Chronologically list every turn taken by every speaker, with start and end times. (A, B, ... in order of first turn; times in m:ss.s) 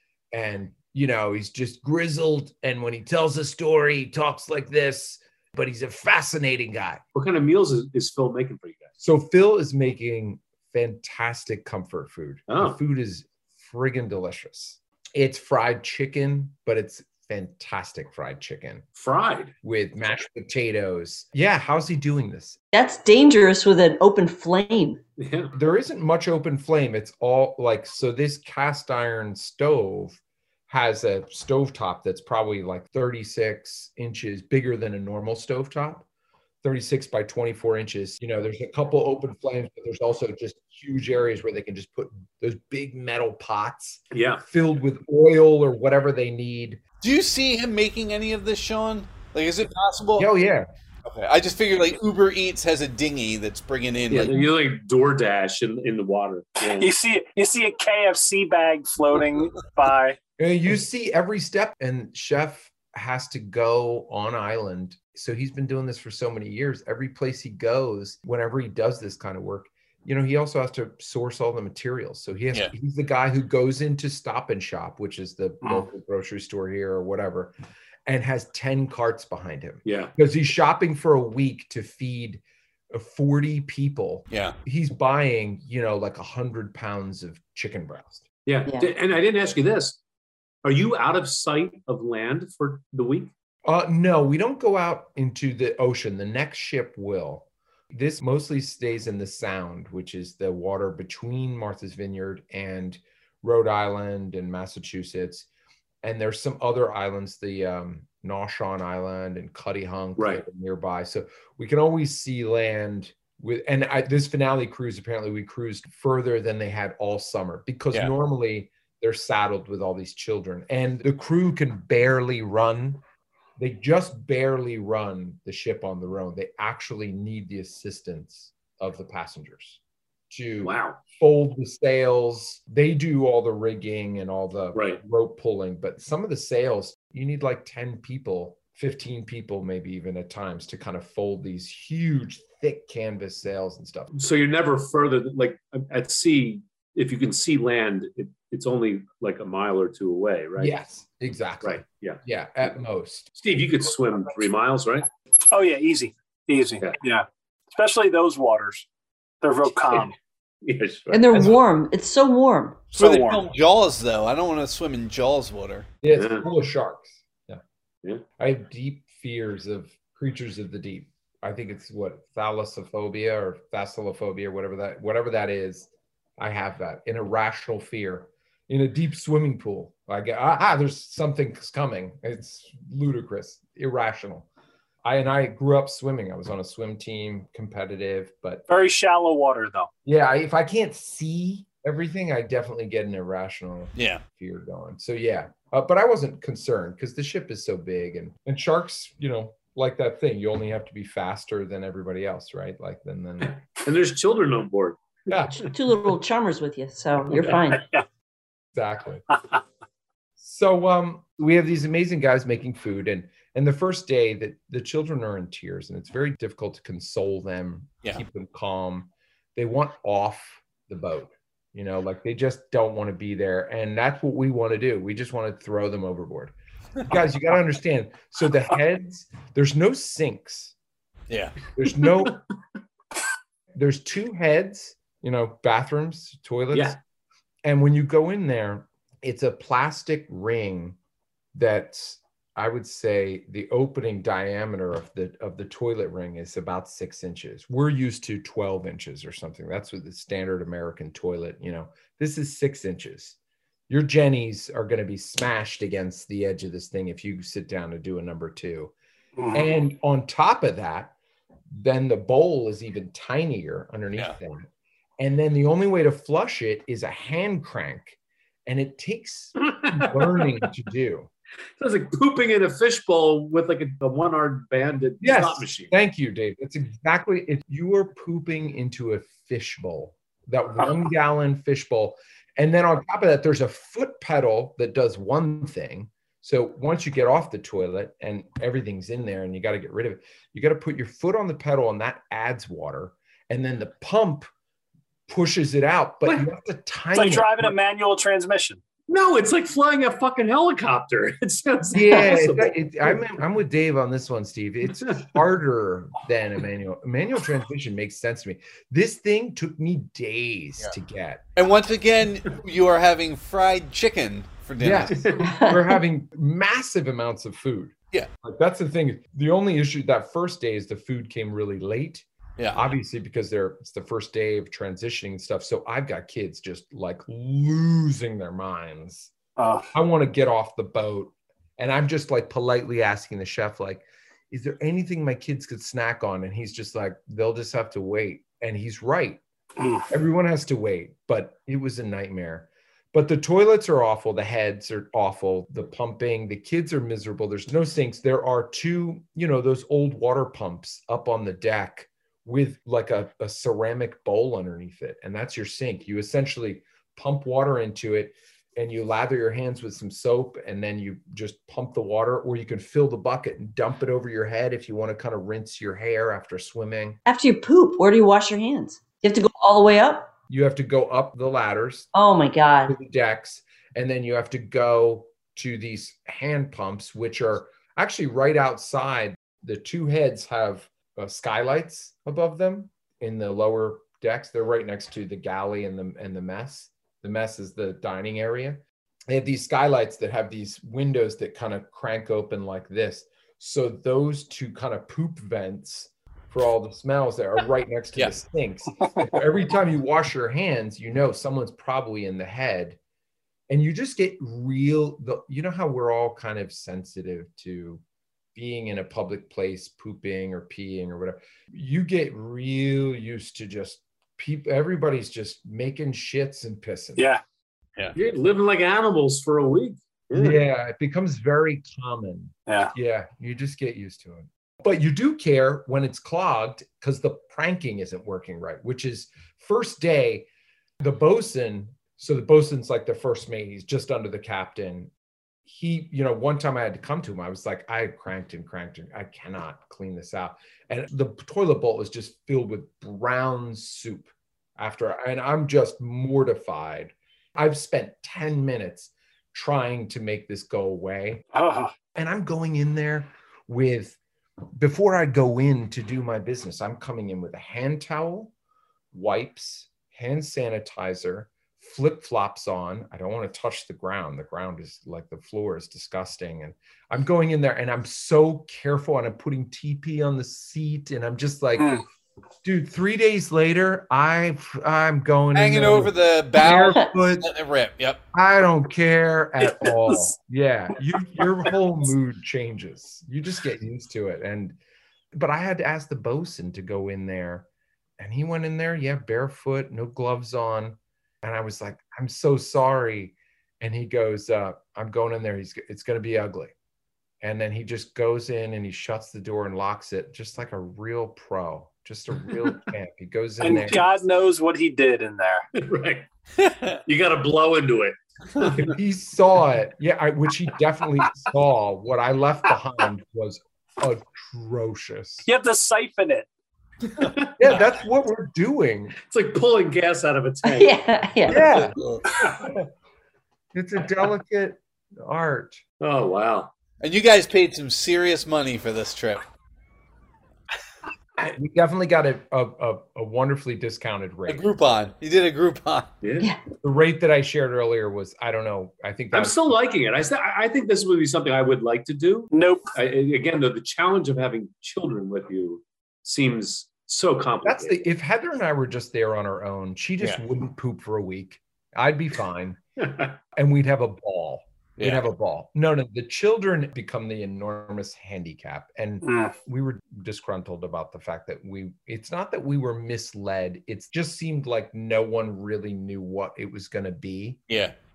0:00.3-0:07.0 A
0:07.2-0:08.9 B
0:09.0-0:18.8 A
0:12.5-0:12.8 B
0:19.0-0:19.5 B
0:19.6-0:22.6 A
0:22.7-0:25.0 C
0:25.2-0:25.6 B
0:25.5-0:36.1 A
0:36.6-0:46.8 A
0:44.1-0:44.4 B
0:47.0-0:50.3 D
0:50.2-0:50.7 A
0:51.0-0:54.4 D
0:54.1-0:56.9 B
0:56.6-1:00.2 E
1:00.4-1:17.5 A
1:15.6-1:15.9 E
1:18.1-1:28.2 A
1:19.8-1:20.1 B
1:24.3-1:24.6 D
1:28.5-1:30.0 B
1:30.6-1:33.3 B
1:33.6-1:45.5 A
1:46.0-2:03.0 A
1:50.2-1:50.4 B
2:03.6-2:24.1 A
2:10.6-2:11.0 B
2:14.8-2:15.0 B
2:24.1-2:30.8 B
2:30.6-2:33.3 A
2:31.6-2:32.2 B
2:33.4-2:35.1 B
2:35.5-2:38.9 E
2:39.4-2:40.2 E
2:40.6-2:41.5 B
2:41.1-2:42.8 C
2:42.9-2:43.4 E
2:43.0-2:45.9 D
2:46.0-2:47.6 A
2:46.1-2:46.5 B
2:48.4-3:04.5 A
3:05.0-3:08.6 A
3:08.7-3:09.9 E
3:10.0-3:23.6 A
3:14.0-3:14.2 D
3:23.4-3:25.0 B
3:25.3-3:25.7 A
3:25.6-3:27.9 C
3:28.7-3:29.2 A
3:30.4-3:50.8 A
3:51.3-3:51.6 D
3:51.8-3:52.4 A
3:51.9-3:52.4 B
3:53.8-3:57.0 A
3:56.7-3:57.0 B
3:57.6-4:01.0 A
4:01.5-4:13.4 A
4:13.9-4:18.9 A
4:19.4-4:19.7 E
4:19.5-4:21.1 A
4:21.7-4:24.7 A
4:25.2-4:31.3 A
4:29.6-4:30.5 B
4:31.8-4:35.9 B
4:35.2-4:54.5 A
4:55.3-4:57.7 A
4:57.2-4:58.8 E
4:59.1-5:03.2 B
5:01.9-5:11.5 A
5:11.6-5:15.3 D
5:14.8-5:29.3 A
5:15.1-5:15.4 B
5:15.4-5:16.0 C
5:22.6-5:22.9 D
5:29.6-5:29.9 E
5:29.9-5:39.4 A
5:39.8-5:40.1 E
5:40.1-6:07.2 A
6:07.3-6:10.3 C
6:10.5-6:12.1 A
6:12.1-6:13.0 C
6:12.9-6:43.0 A
6:43.7-6:48.0 A
6:48.6-6:57.3 A
6:58.2-7:00.6 B
7:00.3-7:10.5 A
7:02.7-7:02.9 E
7:11.0-7:15.1 A
7:15.7-7:31.4 A
7:31.5-7:31.9 E
7:32.2-7:34.2 A
7:34.8-7:38.5 A
7:39.1-7:52.0 A
7:51.8-7:52.0 E
7:52.6-7:57.5 A
7:55.5-7:58.2 D
7:58.3-8:04.8 A
7:59.7-8:00.3 E
8:05.3-8:07.7 A
8:08.2-8:16.7 A
8:17.4-8:24.1 A
8:23.6-8:25.7 E
8:25.7-8:26.3 B
8:26.6-8:27.0 D
8:27.1-8:29.0 B
8:28.9-8:35.5 A
8:35.4-8:36.5 E
8:37.2-8:37.6 B
8:37.6-8:39.2 A
8:39.2-8:41.0 B
8:40.6-8:41.7 C
8:41.5-8:42.0 A
8:41.6-8:42.2 D
8:42.4-8:42.7 B
8:43.7-8:45.8 A
8:46.0-8:46.7 B
8:47.0-8:49.4 D
8:51.4-8:54.6 A
8:54.5-8:56.1 D
8:56.2-8:56.5 B
8:56.8-8:59.6 A
8:59.3-9:08.0 B
9:02.5-9:02.9 E
9:07.6-9:12.8 A
9:13.0-9:13.4 B
9:13.6-9:27.6 A
9:15.0-9:15.2 D
9:19.2-9:19.5 E
9:27.7-9:27.9 D